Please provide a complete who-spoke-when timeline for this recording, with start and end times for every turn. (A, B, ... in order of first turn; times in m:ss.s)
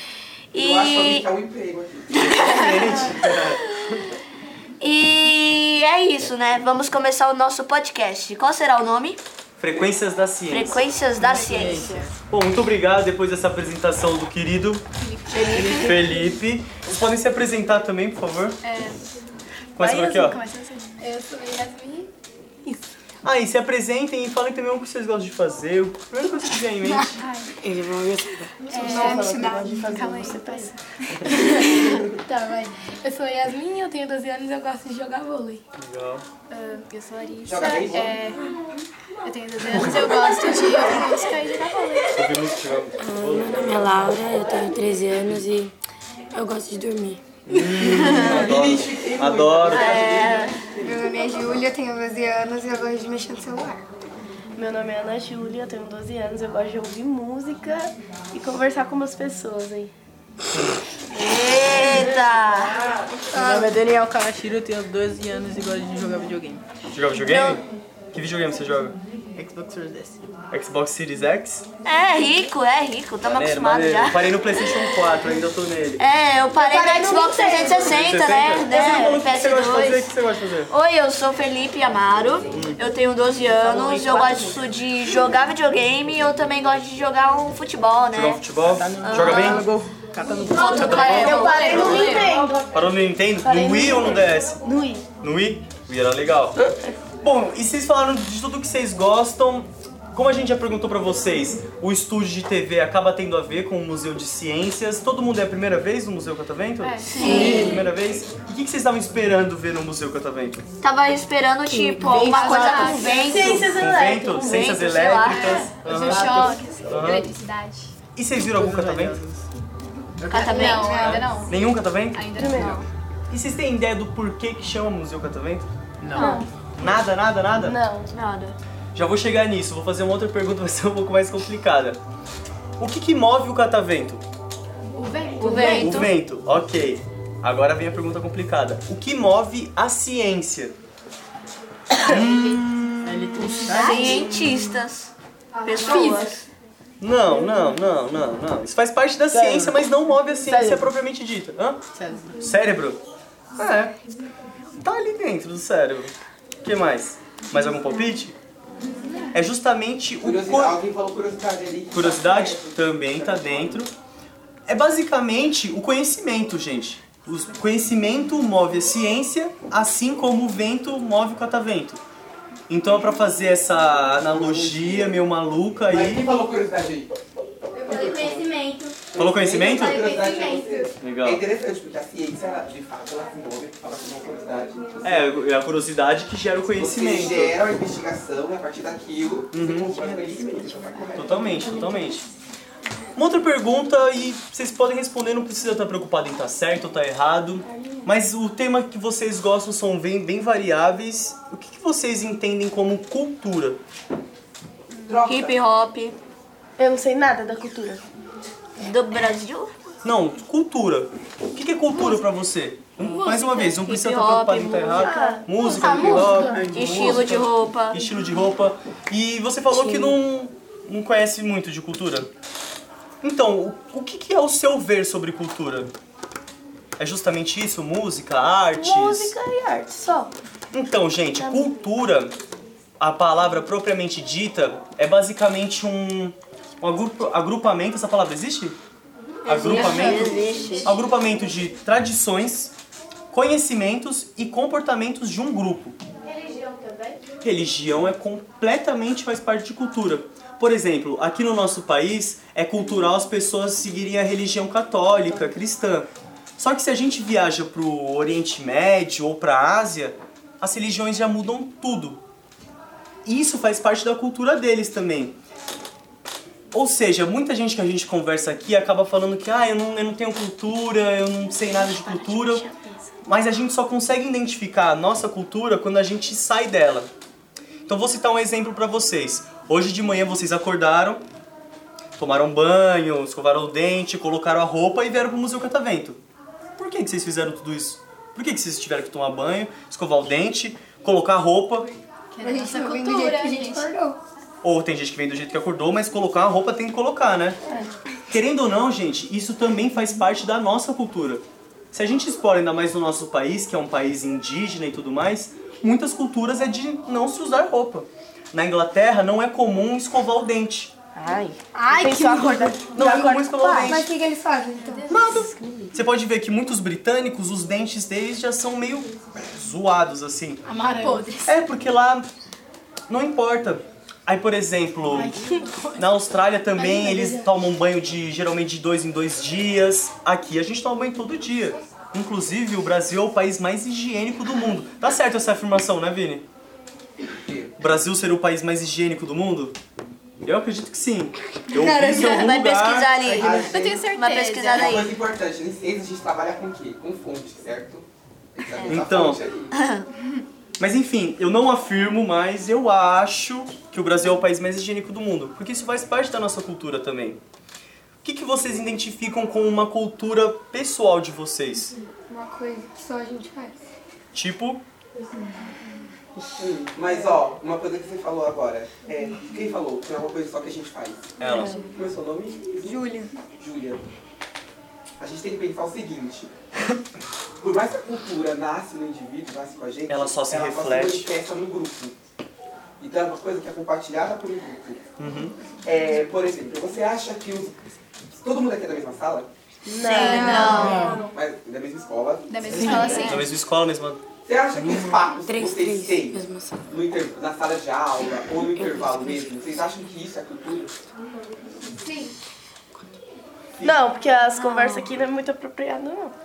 0:00.5-0:01.3 A
0:00.5-0:02.3 B
0:02.2-0:03.2 A
0:02.2-0:04.0 C
0:04.8-0:09.2 A
0:09.6-0:10.8 C
0:10.5-0:12.0 A
0:11.2-0:12.1 D
0:12.3-0:14.8 C
0:15.0-0:15.7 E
0:15.3-0:16.1 A
0:15.7-0:18.6 C
0:18.6-0:19.0 E
0:19.8-0:20.4 C
0:19.8-0:22.1 E
0:23.2-0:27.2 C
0:27.2-0:27.5 E
0:27.6-0:28.7 F
0:28.6-0:30.0 G
0:28.7-0:35.6 E
0:28.9-0:30.7 H
0:35.8-0:36.2 C
0:36.5-0:38.5 E
0:37.4-0:38.2 B
0:39.2-0:42.2 E
0:39.7-0:40.2 C
0:42.1-0:44.0 C
0:43.0-0:45.7 F
0:46.3-0:47.8 F
0:47.5-0:50.1 C
0:47.8-0:48.6 A
0:48.1-0:51.4 B
0:49.7-0:50.6 A
0:50.8-0:53.8 G
0:54.5-0:59.9 H
1:01.1-1:02.8 A
1:03.3-1:03.7 G
1:03.3-1:06.6 D
1:06.9-1:09.0 C
1:07.2-1:07.6 A
1:09.3-1:10.2 D
1:10.5-1:11.6 C
1:11.8-1:14.8 A
1:13.3-1:16.0 C
1:16.0-1:20.2 A
1:16.6-1:18.1 H
1:17.9-1:20.7 C
1:20.7-1:28.4 A
1:22.5-1:22.8 C
1:23.6-1:24.6 H
1:28.1-1:29.7 C
1:28.7-1:32.1 D
1:29.0-1:29.7 A
1:30.5-1:32.4 A
1:30.6-1:32.6 H
1:30.7-1:32.1 C
1:32.7-1:34.6 C
1:33.3-1:35.0 H
1:35.2-1:36.6 C
1:36.6-1:37.0 H
1:37.2-1:50.6 C
1:46.8-1:47.6 E
1:47.1-1:47.8 A
1:47.2-1:47.8 B
1:50.8-1:53.8 A
1:51.7-1:53.0 F
1:52.0-1:53.5 E
1:53.2-1:54.8 H
1:53.6-1:57.3 C
1:54.4-1:55.7 A
1:55.3-1:57.9 E
1:58.1-1:59.2 C
1:58.5-1:59.4 D
2:00.2-2:00.5 D
2:00.3-2:01.2 A
2:00.3-2:02.9 E
2:00.5-2:01.5 G
2:00.9-2:05.7 C
2:02.4-2:02.8 H
2:06.0-2:06.4 A
2:06.8-2:07.8 C
2:07.6-2:08.1 H
2:08.1-2:08.6 A
2:08.9-2:12.0 C
2:12.8-2:14.2 C
2:14.9-2:15.9 E
2:15.4-2:16.1 A
2:15.6-2:20.8 C
2:22.0-2:24.1 C
2:22.2-2:22.6 E
2:23.0-2:24.3 D
2:23.6-2:25.1 A
2:23.7-2:24.0 E
2:25.6-2:26.4 A
2:25.7-2:26.2 G
2:25.9-2:26.3 E
2:27.0-2:31.8 C
2:29.3-2:29.8 H
2:30.5-2:30.8 H
2:31.9-2:32.3 D
2:32.4-2:33.0 C
2:33.6-2:34.0 C
2:34.8-2:38.4 C
2:39.3-2:40.8 C
2:40.2-2:43.8 B
2:41.9-2:43.9 C
2:44.7-2:52.0 C
2:52.7-2:56.4 C
2:54.2-2:55.2 B
2:55.8-2:57.1 B
2:57.8-3:00.9 G
2:57.8-2:58.6 B
2:59.1-3:05.5 B
2:59.2-3:00.1 C
3:01.0-3:01.4 C
3:05.0-3:07.6 C
3:06.8-3:12.0 B
3:09.5-3:10.0 C
3:11.2-3:12.3 C
3:13.2-3:23.8 C
3:25.0-3:25.6 B
3:25.2-3:26.2 A
3:26.8-3:28.0 H
3:28.8-3:29.7 A
3:30.0-3:42.3 C
3:33.2-3:35.2 A
3:35.0-3:35.5 H
3:35.6-3:36.6 E
3:36.7-3:38.0 A
3:39.8-3:40.1 A
3:43.2-3:45.9 C
3:47.0-3:49.3 C
3:48.8-3:50.3 H
3:50.7-3:52.4 C
3:51.4-3:51.7 H
3:53.0-3:58.8 C
3:59.4-4:01.0 A
3:59.5-4:02.7 C
3:59.6-4:00.6 F
4:03.3-4:06.0 C
4:06.3-4:07.2 H
4:07.4-4:22.2 C
4:23.2-4:25.4 C
4:26.7-4:32.6 C
4:31.7-4:33.1 A
4:33.2-4:37.1 C
4:37.9-4:41.2 C
4:42.2-4:46.2 C
4:46.8-4:51.9 C
4:52.3-4:53.9 E
4:52.4-4:54.2 G
4:54.6-4:57.6 C
4:58.3-5:10.9 C
5:11.3-5:13.8 H
5:12.9-5:14.1 C
5:13.8-5:15.1 G
5:15.1-5:20.6 C
5:15.5-5:15.9 H
5:20.7-5:21.5 E
5:21.4-5:22.3 C
5:23.1-5:25.4 C
5:25.1-5:26.0 E
5:25.9-5:36.4 C
5:26.8-5:27.4 E
5:37.2-5:37.8 B
5:37.8-5:39.7 C
5:40.4-5:43.4 C
5:41.8-5:45.1 A
5:43.3-5:44.1 B
5:43.6-5:45.0 E
5:44.7-5:49.8 B
5:48.8-5:49.4 C
5:49.7-5:50.1 A
5:50.8-5:57.4 C
5:58.2-6:01.9 C
6:02.3-6:03.8 G
6:04.3-6:04.8 C
6:06.6-6:14.1 B
6:11.4-6:11.8 C
6:12.8-6:13.3 G
6:15.2-6:16.5 B
6:17.6-6:22.2 B
6:20.1-6:21.3 C
6:23.0-6:25.0 B
6:25.2-6:25.5 C
6:25.8-6:29.5 B
6:29.9-6:31.0 H
6:30.0-6:31.2 A
6:30.1-6:31.1 E
6:30.7-6:33.4 B
6:30.8-6:31.1 D
6:32.5-6:33.5 E
6:33.2-6:34.2 C
6:34.4-6:40.9 B
6:34.8-6:35.1 C
6:35.1-6:36.8 F
6:38.6-6:39.6 F
6:42.0-6:42.3 G
6:43.8-6:46.3 H